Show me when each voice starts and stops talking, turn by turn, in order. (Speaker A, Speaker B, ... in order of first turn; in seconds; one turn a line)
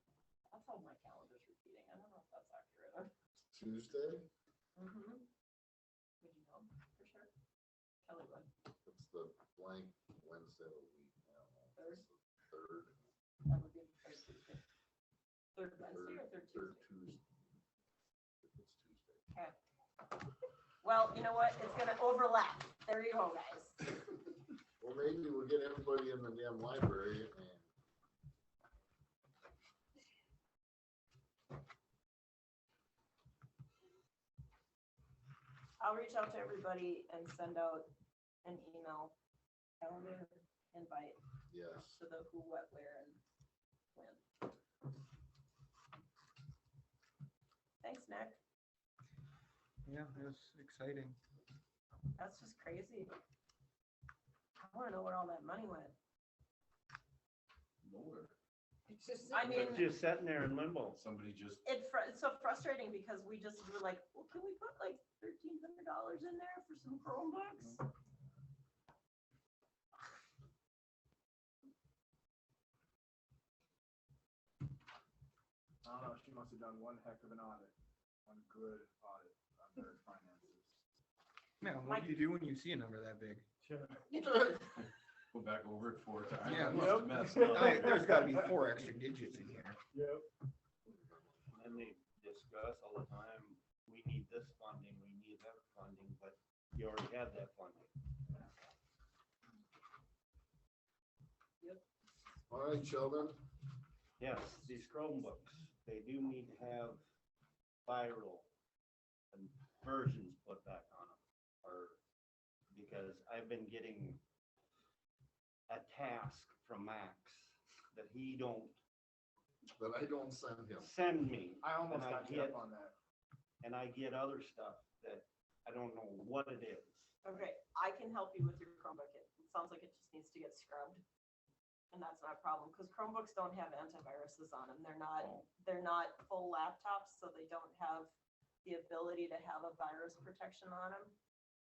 Speaker A: 0.5-3.1
Speaker B: 3.5-4.3
Speaker A: 4.8-5.2
Speaker A: 6.2-7.3
Speaker A: 8.1-8.5
Speaker B: 8.8-13.0
Speaker A: 11.8-12.0
Speaker A: 13.5-14.6
Speaker A: 15.6-16.9
Speaker B: 15.8-17.2
Speaker B: 18.4-19.2
Speaker A: 20.8-23.9
Speaker B: 24.8-27.7
Speaker A: 35.8-37.9
Speaker A: 38.4-39.1
Speaker A: 39.8-41.2
Speaker B: 41.5-42.0
Speaker A: 41.7-43.2
Speaker A: 43.9-44.2
Speaker A: 47.8-48.4
Speaker C: 49.8-51.2
Speaker A: 52.2-53.1
Speaker A: 54.6-55.9
Speaker D: 57.8-58.3
Speaker E: 58.9-59.8
Speaker A: 59.3-59.9
Speaker F: 59.5-61.0
Speaker D: 60.9-61.6
Speaker A: 61.6-67.8
Speaker E: 75.8-77.7
Speaker E: 78.2-80.8
Speaker C: 81.6-83.4
Speaker A: 81.9-82.2
Speaker E: 83.6-84.5
Speaker D: 84.8-88.0
Speaker C: 86.4-89.8
Speaker E: 86.7-88.3
Speaker E: 89.9-90.2
Speaker B: 90.9-91.6
Speaker F: 91.5-97.9
Speaker B: 102.5-103.4
Speaker F: 104.2-107.0
Speaker F: 107.8-108.5
Speaker F: 109.3-112.0
Speaker F: 112.7-114.2
Speaker F: 115.7-118.8
Speaker B: 119.8-120.9
Speaker F: 120.8-122.6
Speaker E: 121.6-122.9
Speaker F: 123.6-127.0
Speaker A: 127.2-131.0
Speaker A: 131.9-138.1
Speaker A: 138.6-141.1